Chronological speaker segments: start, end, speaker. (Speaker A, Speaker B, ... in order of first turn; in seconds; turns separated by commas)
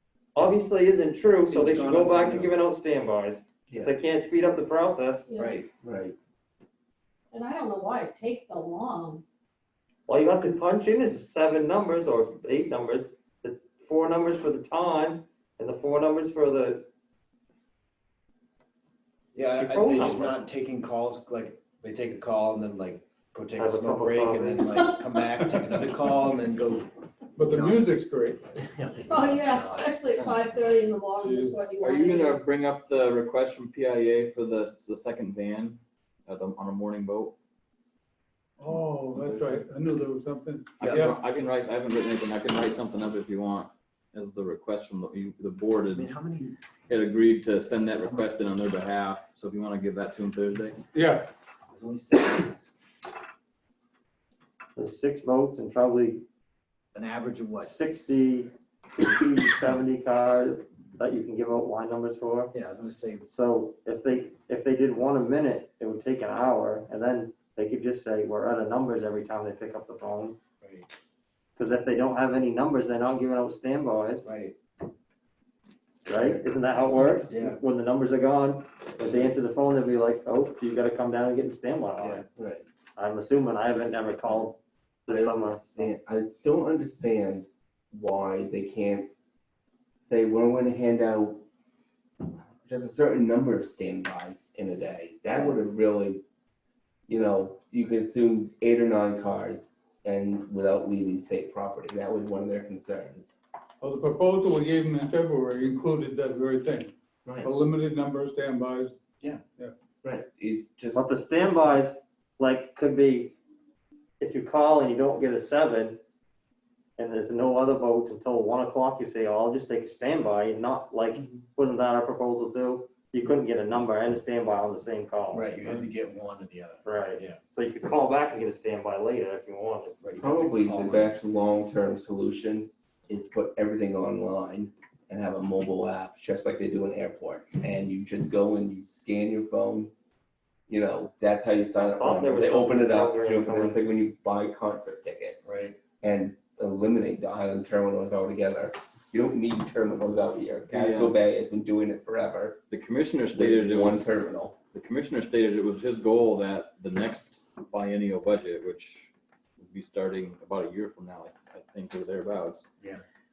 Speaker A: 0.3-5.3, Speaker B: 1.5-2.5, Speaker C: 5.3-5.6, Speaker B: 5.3-5.7, Speaker D: 5.7-6.1, Speaker C: 7.3-9.2, Speaker A: 10.1-16.9, Speaker B: 19.3-26.9, Speaker A: 19.6-20.4, Speaker A: 23.6-24.7, Speaker E: 25.3-25.8, Speaker E: 27.4-28.5, Speaker B: 27.4-27.8, Speaker B: 28.6-29.9, Speaker C: 29.1-32.4, Speaker E: 31.2-31.6, Speaker F: 31.8-37.3, Speaker E: 38.6-41.1, Speaker F: 39.1-39.5, Speaker F: 40.8-46.1, Speaker B: 45.9-46.5, Speaker F: 46.9-50.8, Speaker E: 50.9-51.3, Speaker B: 51.7-52.7, Speaker A: 54.8-56.2, Speaker B: 56.9-58.2, Speaker A: 57.6-62.5, Speaker B: 62.5-63.3, Speaker A: 63.3-70.4, Speaker B: 70.6-70.9, Speaker A: 71.6-74.2, Speaker B: 74.2-74.5, Speaker D: 76.0-76.5, Speaker A: 76.0-82.2, Speaker B: 77.3-77.6, Speaker D: 82.3-82.6, Speaker A: 83.0-85.9, Speaker D: 85.1-89.1, Speaker D: 90.0-91.4, Speaker D: 92.6-96.2, Speaker D: 97.1-103.3, Speaker E: 103.8-109.0, Speaker D: 110.0-111.8, Speaker A: 110.9-113.3, Speaker A: 114.2-116.0, Speaker A: 117.0-125.5, Speaker B: 125.3-127.4, Speaker A: 126.8-129.9, Speaker B: 130.0-131.2, Speaker D: 130.2-139.9, Speaker D: 140.7-145.5, Speaker A: 141.8-143.8, Speaker B: 145.4-145.8, Speaker D: 146.0-152.6, Speaker F: 150.7-151.2, Speaker F: 152.7-154.1, Speaker D: 153.3-154.6, Speaker F: 154.7-162.7